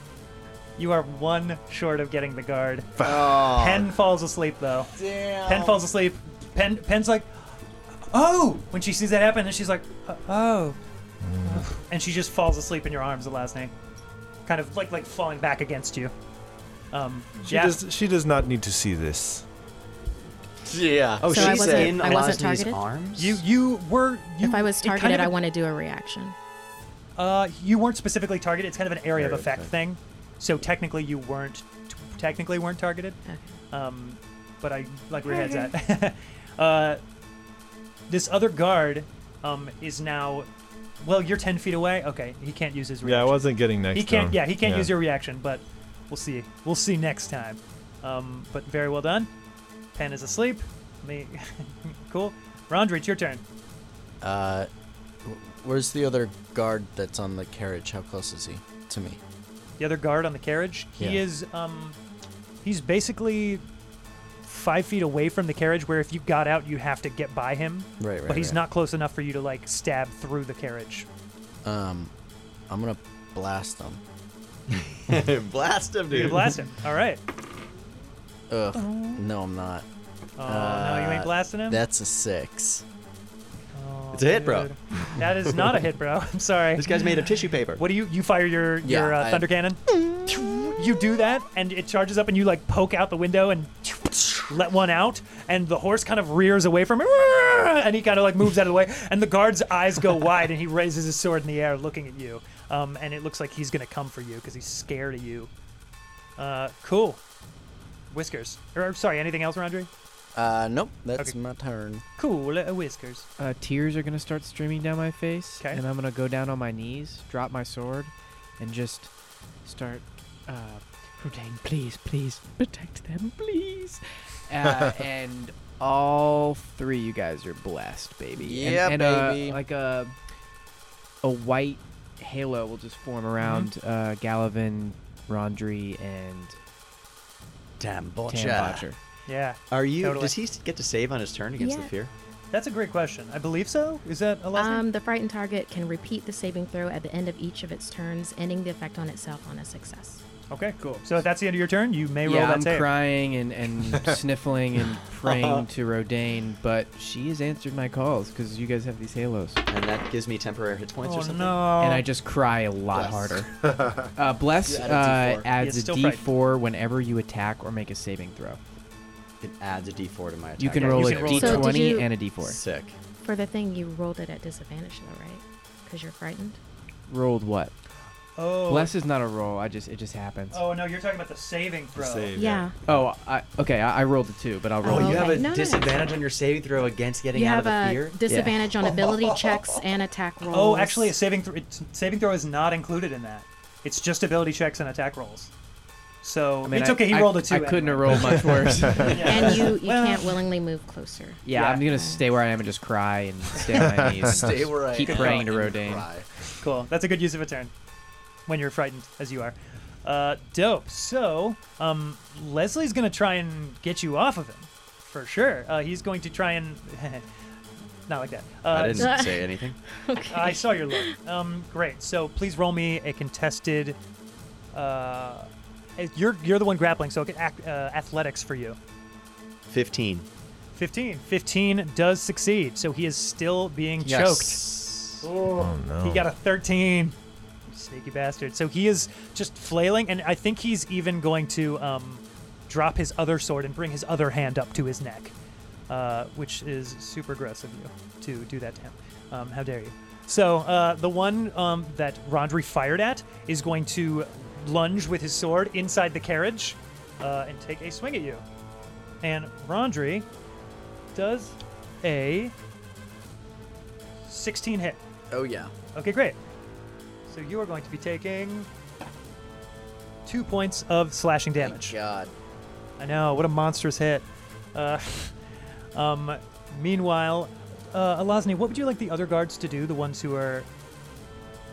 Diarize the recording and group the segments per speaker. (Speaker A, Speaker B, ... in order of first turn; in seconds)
Speaker A: 0.8-7.3, 8.1-10.8, 11.4-13.7, 14.4-16.1, 16.9-17.8, 23.2-25.3, 27.2-33.2, 33.7-37.0, 38.1-40.5, 41.0-49.3, 49.9-53.4, 59.8-62.0, 62.6-63.6, 64.5-71.1, 76.1-77.2, 78.7-79.2, 80.4-81.8, 83.7-105.5, 106.4-107.2, 108.1-109.9, 112.2-113.3, 133.4-133.7, 139.3-140.3, 142.5-144.8, 150.5-152.9, 161.0-162.0, 165.6-166.3, 170.8-171.7, 178.4-178.9, 180.5-182.3, 190.5-195.5, 196.2-200.4, 201.5-201.8, 205.0-205.4, 206.6-207.7, 208.5-217.2, 218.1-219.3, 220.3-224.0, 224.7-228.8, 230.7-234.6, 235.2-237.1, 237.7-245.3, 245.9-258.4, 259.2-260.2, 261.1-262.5, 264.3-265.0, 265.9-266.4, 267.3-268.7, 270.2-271.9, 273.0-275.3, 275.9-280.7
Speaker B: 3.0-3.9, 5.0-5.8, 20.6-22.0, 54.2-54.7, 55.2-59.2, 61.0-61.2, 68.0-68.5, 71.6-72.1, 72.7-74.0, 78.5-79.8, 80.5-82.8, 88.8-90.7, 110.3-112.0, 128.3-129.6, 162.9-163.3, 164.6-165.5, 204.2-206.3, 265.3-265.7, 271.6-272.3
Speaker C: 11.2-11.7, 17.4-19.4, 43.0-44.9, 163.6-164.1, 181.9-182.8, 198.2-199.1, 203.8-204.5, 235.5-236.3
Speaker D: 21.2-23.4, 29.1-29.7, 68.2-68.5, 74.8-76.6, 84.1-85.7, 86.8-87.8, 137.8-138.9, 139.7-142.1, 155.2-155.6, 159.7-161.7, 162.9-163.4, 169.4-171.7, 172.4-172.9, 184.8-188.2, 205.1-205.4, 218.7-219.8, 229.7-230.2, 234.0-235.3
Speaker E: 21.3-22.8, 24.4-26.4, 33.2-33.5, 35.2-35.7, 141.6-141.9, 144.5-150.2, 171.3-172.1, 173.2-176.6, 182.4-182.8, 184.8-186.1, 187.3-191.1, 199.2-202.2, 219.0-221.2
Speaker F: 113.4-130.1, 131.2-136.6, 138.3-139.0, 150.8-151.1, 152.2-159.6, 161.8-163.5, 164.1-168.6, 170.6-172.6, 177.1-177.7, 178.7-180.6, 182.8-185.4, 188.3-188.6, 196.6-199.5, 201.4-206.1